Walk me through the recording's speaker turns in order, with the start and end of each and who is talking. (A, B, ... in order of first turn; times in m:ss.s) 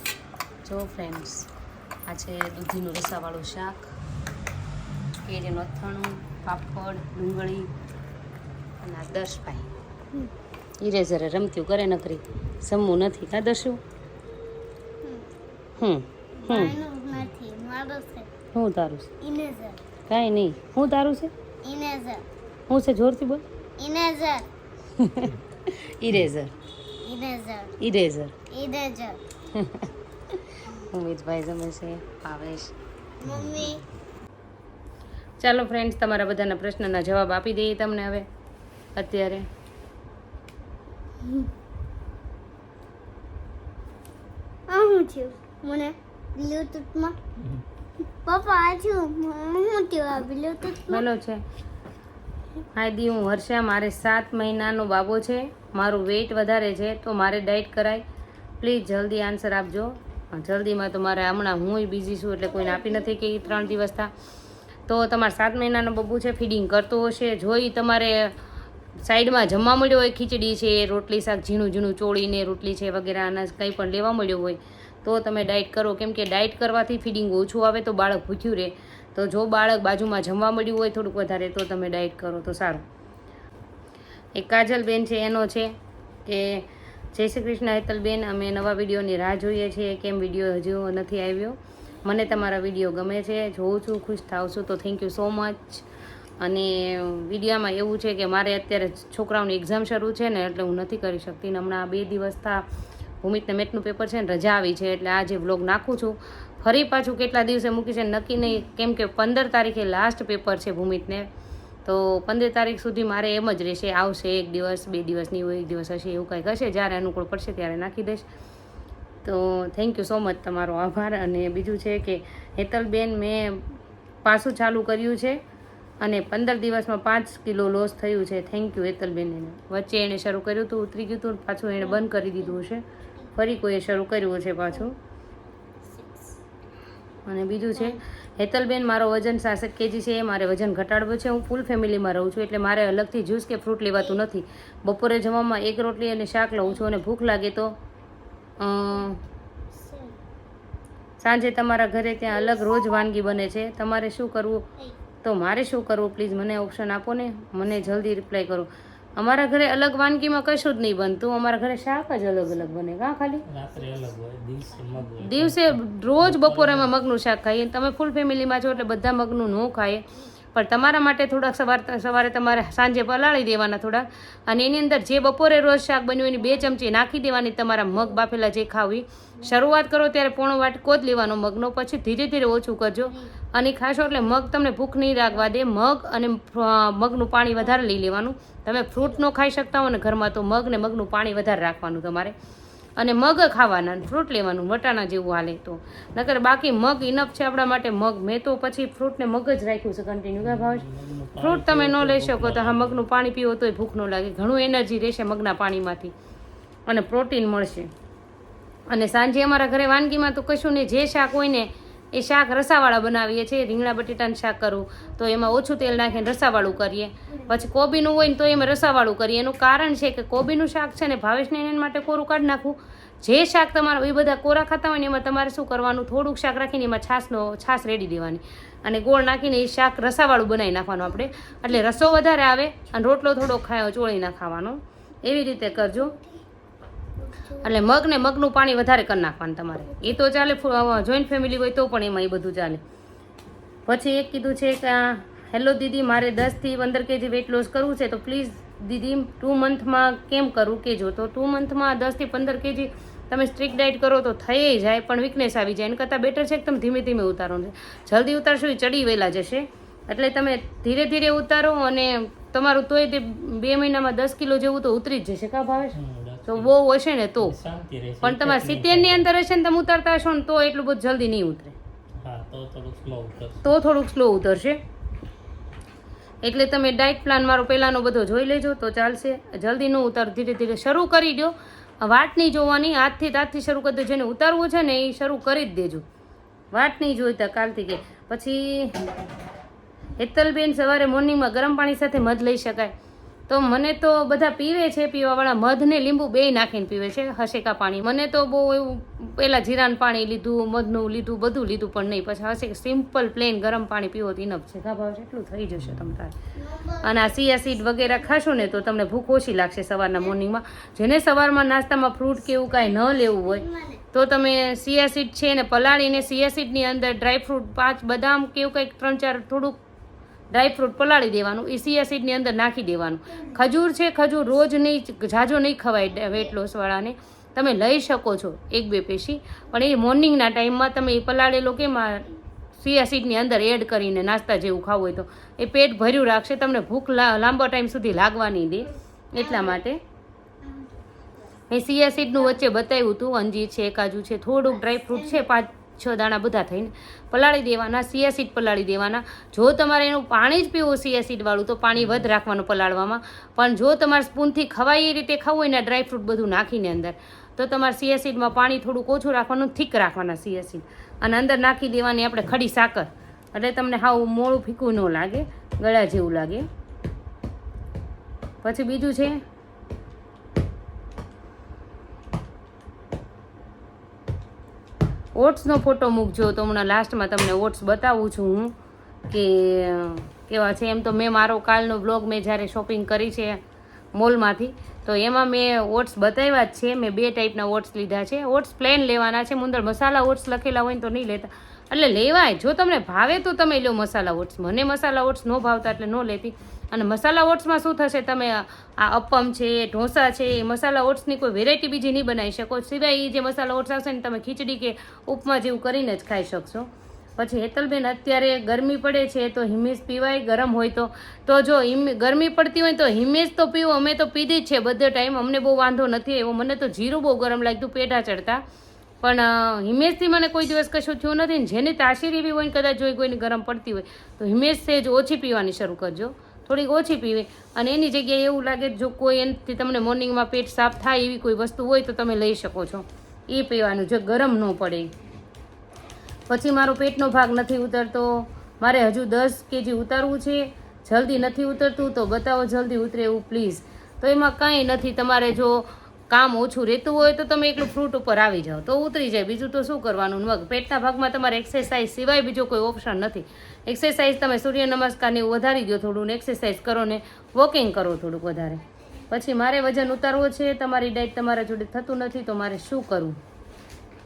0:00.6-0:01.5 A
0:02.0-0:03.8 A
0:05.2-0:07.7 A
0:08.8-0:09.7 A
0:10.8-0:13.8 A
0:15.0-0:15.3 B
0:15.8-0:16.7 A
0:16.4-0:18.3 B
0:18.5-0:19.1 A
0:19.2-0:19.8 B
0:20.1-0:21.3 A
0:21.6-0:22.2 B
0:22.7-0:23.4 A
0:23.8-0:24.5 B
0:25.0-0:26.5 A
0:27.0-0:27.8 B
0:27.8-0:28.3 A
0:28.5-0:29.2 B
0:29.5-0:32.7 A
0:33.2-0:33.8 B
0:33.3-0:33.6 C
0:35.4-0:38.2 A
0:38.9-0:39.4 A
0:41.2-0:41.5 B
0:44.7-0:47.2 B
0:47.4-0:47.6 C
0:48.2-0:51.0 B
0:50.8-0:51.4 A
0:52.7-0:58.0 A
0:58.6-1:04.1 A
1:02.5-1:03.1 B
1:04.9-1:08.3 A
1:09.0-1:22.8 A
1:24.3-1:35.8 A
1:36.4-1:42.6 A
1:43.2-1:51.3 A
1:51.8-1:58.2 A
1:59.2-2:03.6 A
2:04.2-2:05.4 A
2:06.0-2:12.8 A
2:11.8-2:12.6 B
2:13.4-2:14.9 A
2:15.8-2:16.4 B
2:17.2-2:27.7 A
2:28.6-2:29.2 A
2:29.7-2:30.2 B
2:31.2-2:34.6 A
2:32.3-2:33.0 B
2:35.2-2:43.4 A
2:43.4-2:46.9 C
2:43.7-2:44.0 B
2:45.2-3:12.3 A
3:13.0-3:20.8 A
3:20.4-3:23.0 C
3:21.4-3:26.1 A
3:26.9-3:27.9 A
3:28.9-3:56.1 A
3:55.9-3:56.4 B
3:57.2-3:57.9 B
3:57.6-4:02.8 A
4:03.8-4:26.0 A
4:25.9-4:26.7 C
4:26.5-4:27.6 A
4:27.4-4:29.3 C
4:28.2-4:31.7 A
4:32.2-4:33.6 C
4:33.6-4:34.8 A
4:36.4-4:46.0 A
4:46.7-4:49.2 A
4:50.2-4:52.9 A
4:53.5-5:06.3 A
5:05.8-5:06.1 C
5:06.5-5:08.9 B
5:07.0-5:19.8 A
5:13.4-5:14.0 B
5:20.5-5:40.0 A
5:39.4-5:39.8 B
5:40.6-5:41.5 B
5:41.7-6:06.6 A
5:45.1-5:45.5 B
6:08.6-6:09.4 A
6:15.3-6:18.7 A
6:19.3-6:23.6 A
6:24.1-6:58.6 A
6:59.2-7:15.1 A
7:16.5-7:43.4 A